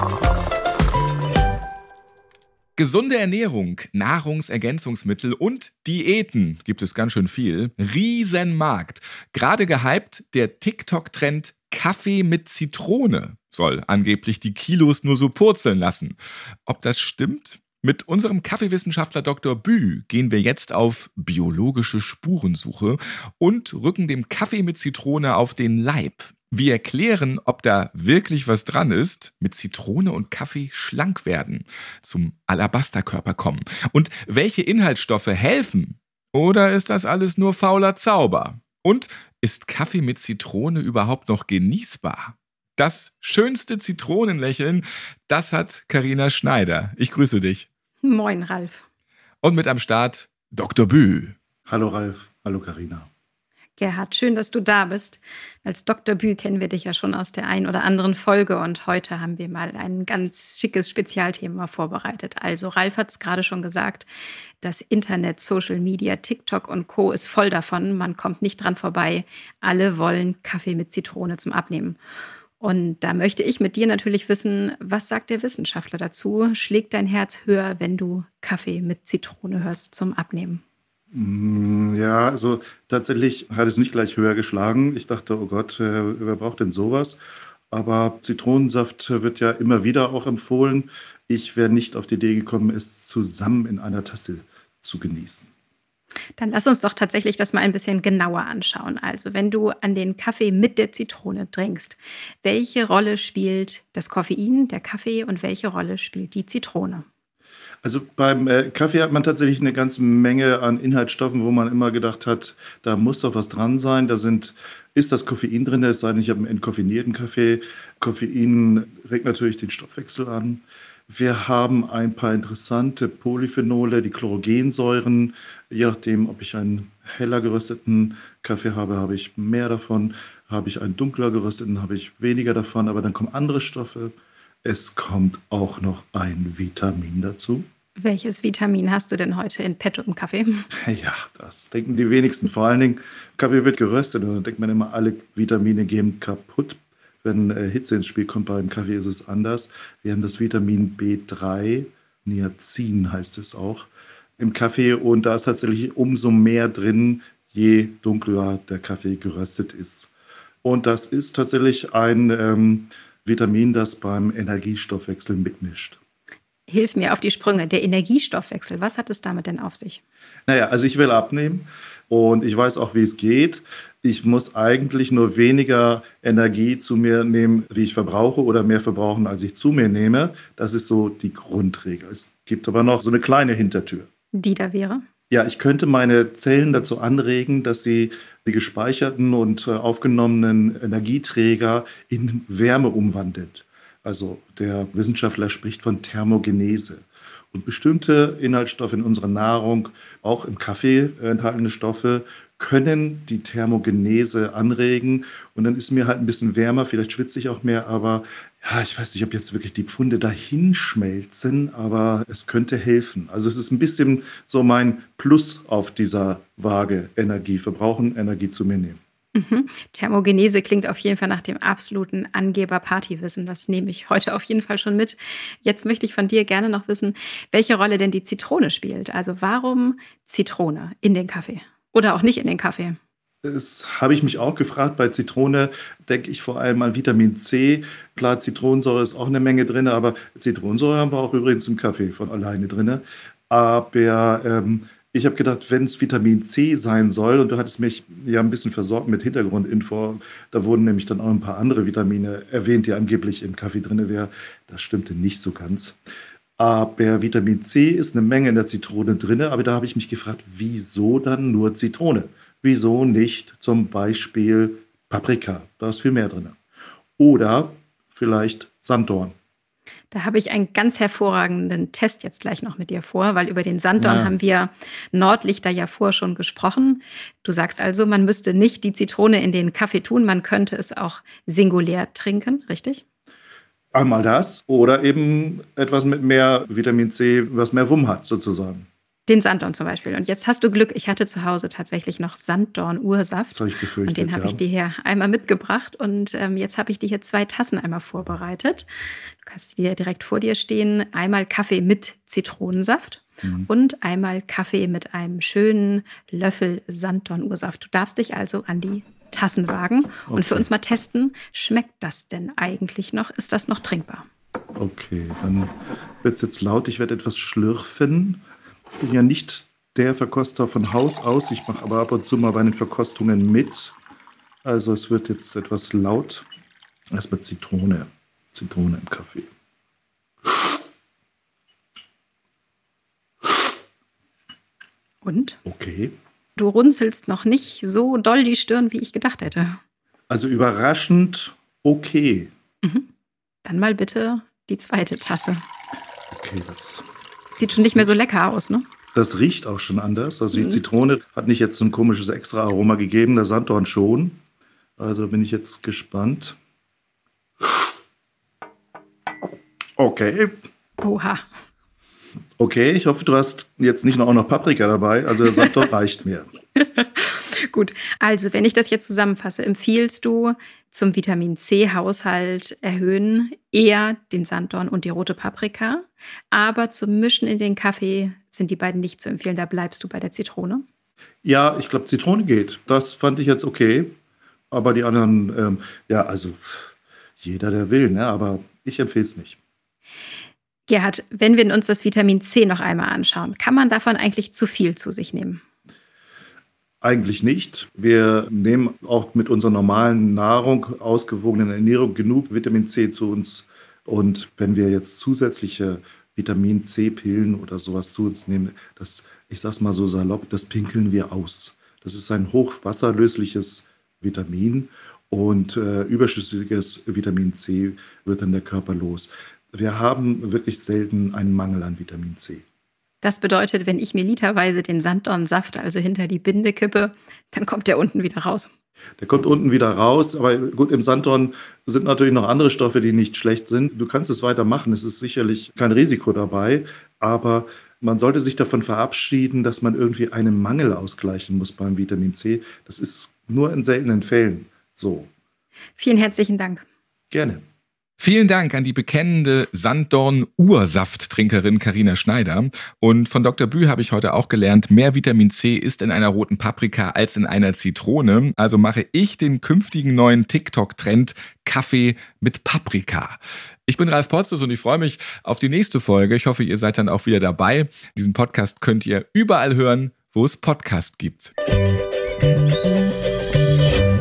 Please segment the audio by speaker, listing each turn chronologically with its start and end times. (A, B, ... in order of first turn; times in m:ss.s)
0:02.8-0:47.7 A
0:48.0-0:48.8 B
0:49.4-0:51.4 A
0:51.7-0:53.1 C
0:53.8-1:04.1 B
1:04.6-1:12.0 B
1:12.6-1:20.6 B
1:21.1-1:35.5 C
1:36.4-1:47.1 B
1:47.8-2:14.1 C
2:14.6-2:17.6 C
2:18.0-2:20.7 B
2:20.8-2:40.1 C
2:40.6-2:46.0 C
2:46.7-2:50.0 B
2:50.5-3:04.1 C
3:04.3-3:05.0 B
3:05.3-3:39.0 C
3:39.4-3:53.0 B
3:53.4-4:16.0 C
4:16.6-4:26.6 C
4:27.2-4:29.3 C
4:30.1-4:43.0 B
4:34.0-4:34.4 C
4:43.9-4:48.9 C
4:49.3-4:58.9 B
4:53.5-4:54.6 C
4:59.4-5:14.3 B
5:03.4-5:03.7 C
5:10.3-5:10.7 C
5:14.8-5:18.4 C
5:19.0-5:24.0 C
5:24.6-5:26.5 C
5:27.1-5:29.5 C
5:35.2-5:35.6 B
5:35.6-5:36.1 C
5:36.6-5:39.8 B
5:40.3-5:42.5 C
5:42.8-5:43.1 B
5:43.6-5:45.6 B
5:46.3-5:47.0 C
5:47.5-5:48.8 B
5:47.6-5:48.1 C
5:49.2-5:54.4 C
5:50.5-5:50.8 B
5:55.0-5:56.6 C
6:00.0-6:00.6 C
6:01.0-6:01.4 B
6:02.6-6:06.5 C
6:06.8-6:20.8 B
6:21.4-6:24.1 C
6:24.7-6:29.6 C
6:30.9-6:35.6 B
6:37.0-7:02.6 C
7:03.2-7:08.7 B
7:09.2-7:25.3 C
7:26.0-7:26.8 B
7:27.3-7:27.6 C
7:28.2-7:51.5 A